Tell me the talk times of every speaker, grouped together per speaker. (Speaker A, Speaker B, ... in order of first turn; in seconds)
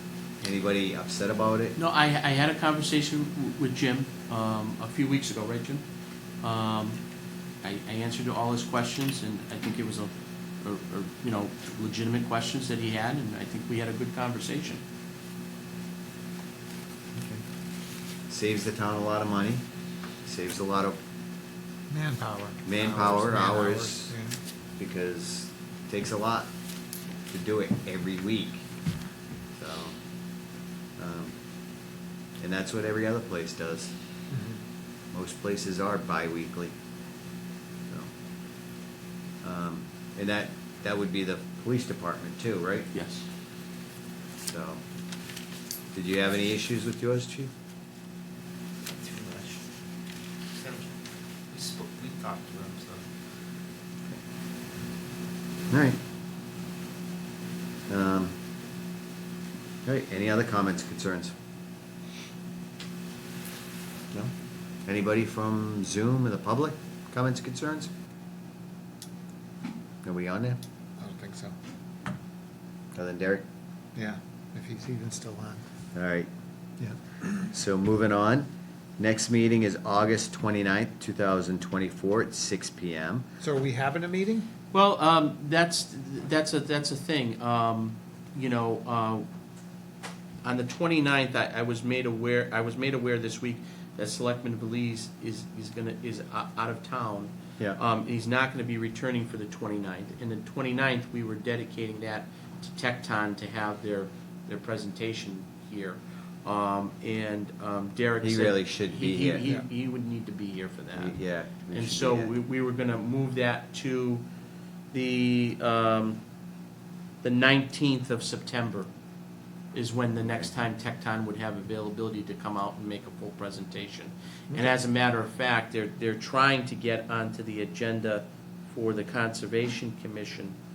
Speaker A: 0.4-1.8, 17.1-17.4, 18.3-19.6, 20.2-21.0, 22.7-24.1, 24.8-26.5, 27.3-28.7, 29.5-30.0, 31.0-31.4, 32.4-33.9, 35.1-36.7, 39.4-42.9, 44.4-44.8, 45.9-47.5, 55.7-56.0, 57.9-58.4, 59.9-61.3, 64.9-67.9, 70.0-70.6, 73.0-73.5, 75.9-76.3, 77.5-83.3, 108.2-109.5, 110.9-112.3
Speaker B: 1.8-5.8, 6.4-7.0, 7.6-14.8, 42.9-43.2, 84.7-89.3, 90.4-111.2, 111.7-114.2, 114.9-116.2, 117.2-118.9, 119.7-130.6
Speaker C: 21.9-24.4, 34.3-34.6, 71.0-71.5, 74.0-75.6, 76.8-77.5, 83.4-84.5
Speaker D: 48.9-49.6, 50.5-50.9, 51.5-53.0